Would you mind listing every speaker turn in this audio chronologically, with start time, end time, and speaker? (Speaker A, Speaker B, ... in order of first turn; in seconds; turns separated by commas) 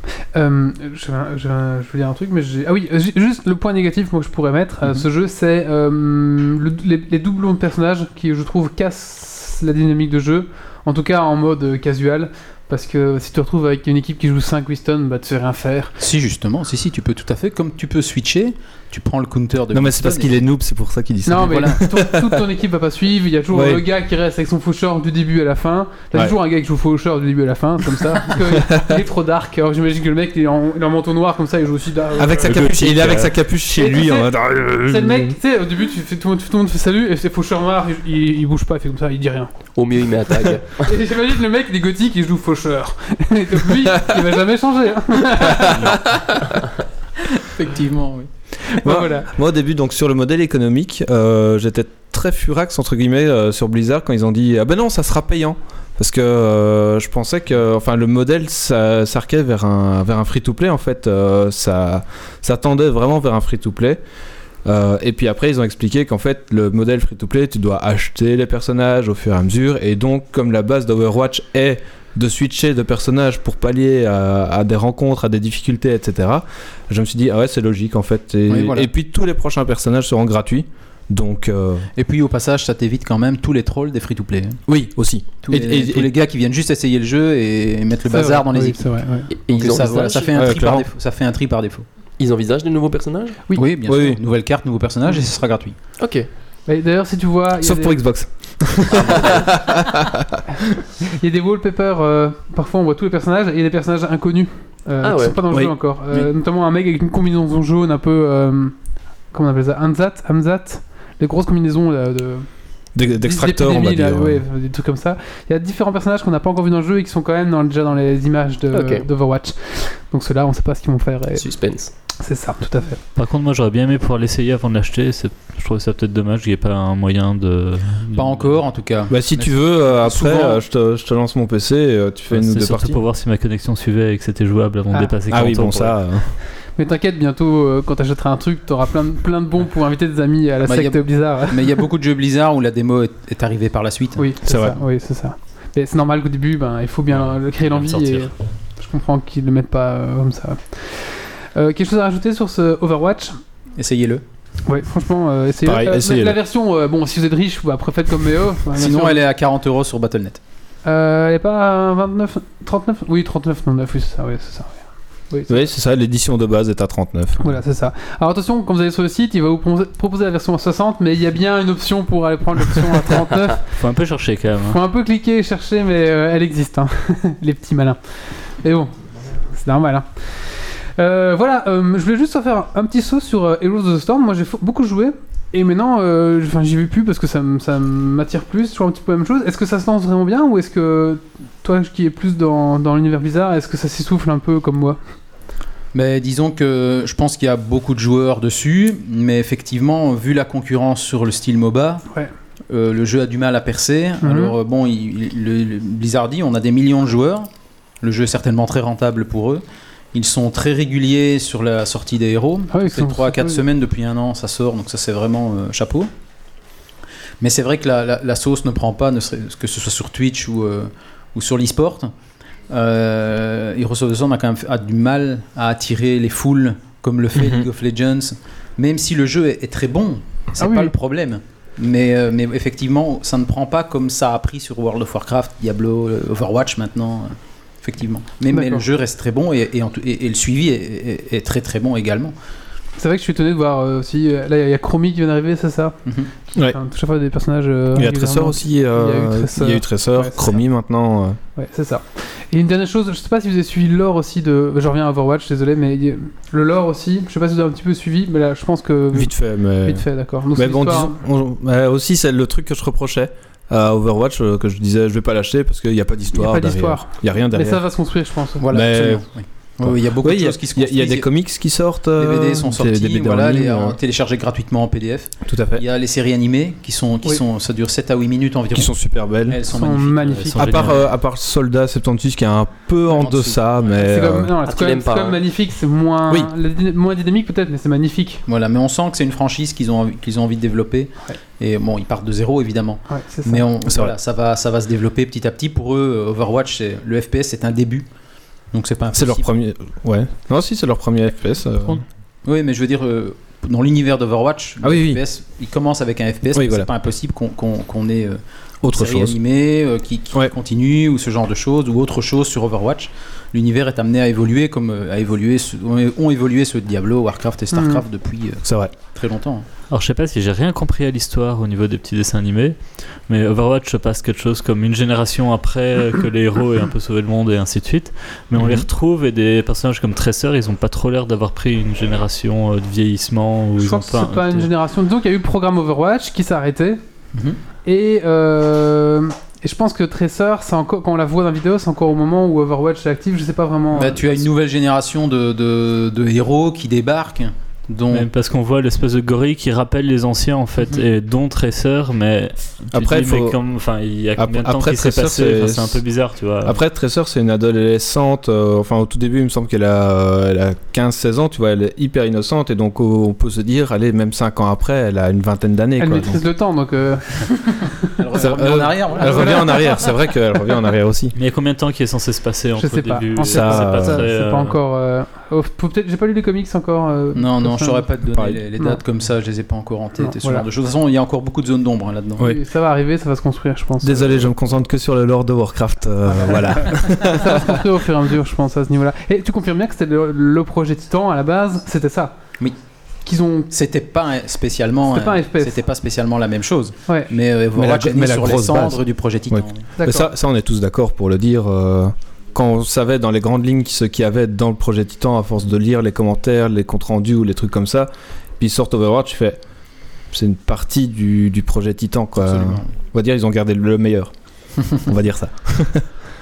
Speaker A: 0.3-15.9, Speaker B: 16.0-20.4, Speaker C: 19.7-22.4, Speaker A: 21.2-32.9, Speaker B: 21.4-21.8, Speaker C: 23.5-23.8, Speaker C: 28.2-28.9, Speaker C: 32.2-35.4, Speaker D: 32.4-33.4, Speaker A: 33.7-39.5, Speaker E: 39.7-40.9, Speaker A: 40.8-45.9, Speaker C: 43.9-44.3, Speaker C: 45.4-46.4, Speaker B: 47.5-48.3, Speaker A: 48.7-49.3, Speaker C: 48.8-64.0, Speaker C: 64.6-81.9, Speaker B: 78.5-78.9, Speaker B: 82.0-84.6, Speaker C: 84.7-86.1, Speaker B: 85.4-88.8, Speaker A: 88.1-89.3, Speaker E: 89.3-90.5, Speaker B: 89.5-91.9, Speaker C: 90.2-90.9, Speaker E: 92.2-93.4, Speaker B: 93.5-95.8, Speaker C: 93.8-94.2, Speaker E: 96.0-96.3, Speaker A: 96.7-98.0, Speaker C: 97.6-100.4, Speaker E: 98.9-99.5, Speaker A: 101.1-108.8, Speaker E: 105.0-105.4, Speaker C: 105.5-105.7, Speaker A: 109.3-112.5, Speaker C: 112.9-114.4, Speaker A: 113.2-121.5, Speaker E: 118.7-119.0, Speaker E: 121.4-121.9, Speaker A: 122.2-123.0, Speaker D: 123.2-128.6, Speaker B: 128.1-130.6, Speaker C: 129.1-133.0, Speaker D: 132.3-136.0, Speaker C: 135.3-136.3, Speaker A: 136.8-141.6, Speaker B: 140.6-144.3, Speaker A: 144.2-153.4, Speaker C: 144.4-144.8, Speaker D: 147.1-148.3, Speaker B: 153.8-154.2, Speaker A: 154.7-159.2, Speaker C: 155.6-156.4, Speaker B: 158.7-160.4, Speaker A: 160.8-165.6, Speaker C: 165.5-167.4, Speaker A: 167.4-173.6, Speaker D: 173.7-174.8, Speaker A: 174.7-178.0, Speaker A: 178.5-178.9, Speaker A: 179.5-195.0, Speaker B: 195.9-202.0, Speaker B: 202.7-207.5, Speaker A: 204.2-204.5, Speaker B: 208.0-216.1, Speaker A: 212.7-213.6, Speaker B: 217.4-222.1, Speaker B: 222.7-242.3, Speaker C: 227.3-227.7, Speaker A: 230.6-230.9, Speaker A: 238.5-238.8, Speaker A: 243.0-246.0, Speaker A: 246.5-250.6, Speaker C: 247.9-251.4, Speaker A: 251.6-259.3, Speaker C: 259.1-267.8, Speaker A: 259.8-261.2, Speaker A: 266.3-268.6, Speaker B: 268.6-271.3, Speaker C: 268.7-269.2, Speaker C: 269.8-274.0, Speaker B: 272.2-278.9, Speaker C: 275.4-275.8, Speaker C: 278.7-279.6, Speaker B: 279.5-281.0, Speaker A: 279.7-280.7, Speaker D: 280.4-281.1, Speaker C: 280.6-284.5, Speaker B: 283.1-283.6, Speaker A: 284.0-288.4, Speaker E: 284.6-285.4, Speaker B: 288.5-298.1, Speaker A: 293.1-293.7, Speaker C: 293.9-294.1, Speaker B: 298.7-299.5, Speaker C: 299.1-302.0, Speaker B: 302.4-319.6, Speaker C: 304.8-305.2, Speaker C: 306.5-306.9, Speaker C: 308.8-309.4, Speaker A: 317.7-318.0, Speaker C: 318.6-318.9, Speaker D: 319.9-334.7, Speaker C: 328.6-328.9, Speaker A: 333.8-337.0, Speaker B: 337.3-337.6, Speaker A: 337.9-344.2, Speaker B: 343.9-348.3, Speaker D: 348.1-356.8, Speaker C: 352.9-353.6, Speaker C: 354.4-356.0, Speaker C: 356.6-366.4, Speaker A: 366.0-368.1, Speaker B: 368.2-369.9, Speaker C: 368.4-371.3, Speaker D: 371.3-374.8, Speaker A: 372.8-378.0, Speaker C: 373.4-374.3, Speaker B: 377.3-382.5, Speaker C: 378.3-378.6, Speaker A: 380.2-380.6, Speaker A: 382.4-384.4, Speaker C: 384.0-387.9, Speaker A: 386.3-392.3, Speaker A: 393.2-393.7, Speaker B: 393.7-399.8, Speaker A: 395.1-395.8, Speaker C: 397.7-409.6, Speaker A: 400.0-400.3, Speaker C: 410.3-414.3, Speaker B: 412.4-412.9, Speaker C: 414.9-416.0